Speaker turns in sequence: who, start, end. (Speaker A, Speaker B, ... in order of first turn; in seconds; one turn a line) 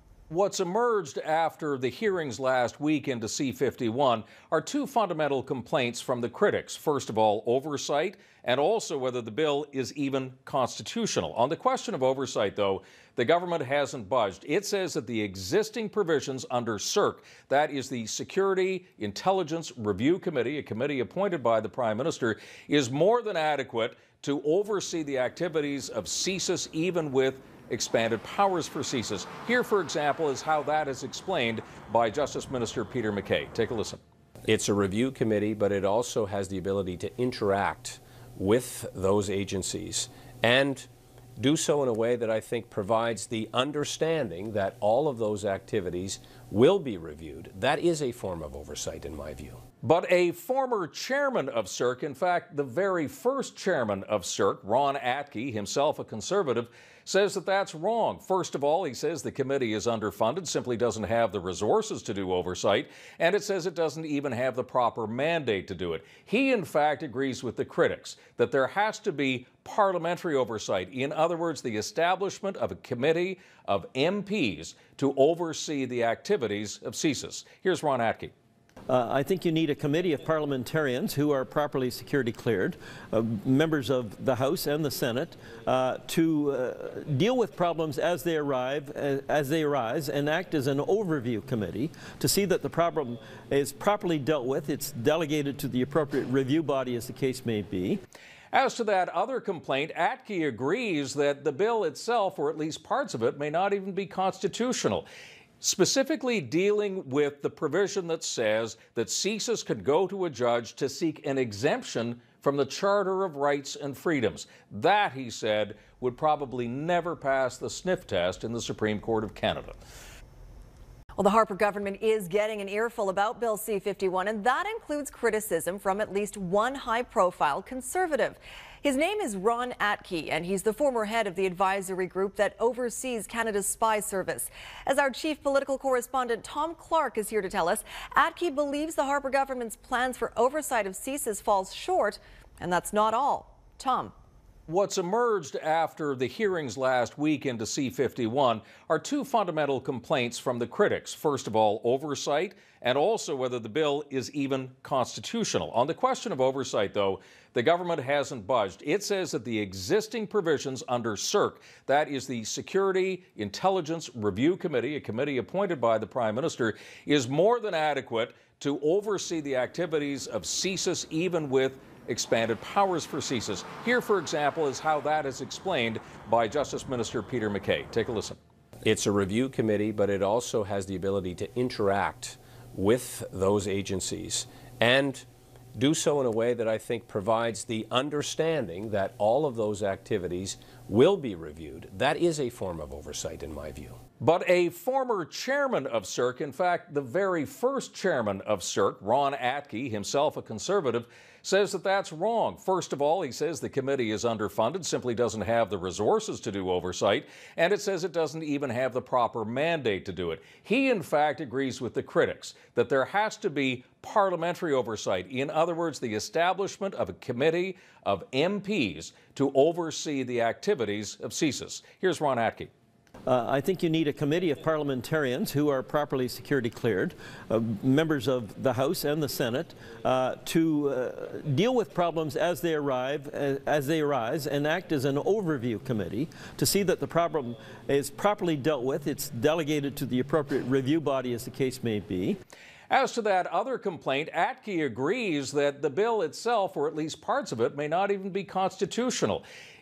Speaker A: 0.3-34.0
Speaker B: 34.5-40.9
Speaker B: 41.4-49.6
Speaker A: 49.8-78.3
Speaker C: 78.9-98.0
Speaker A: 98.5-105.1
Speaker A: 105.6-119.8
Speaker D: 121.2-144.1
Speaker A: 144.7-178.4
Speaker B: 178.8-194.0
Speaker A: 194.2-222.7
Speaker C: 223.2-242.4
Speaker A: 242.9-249.4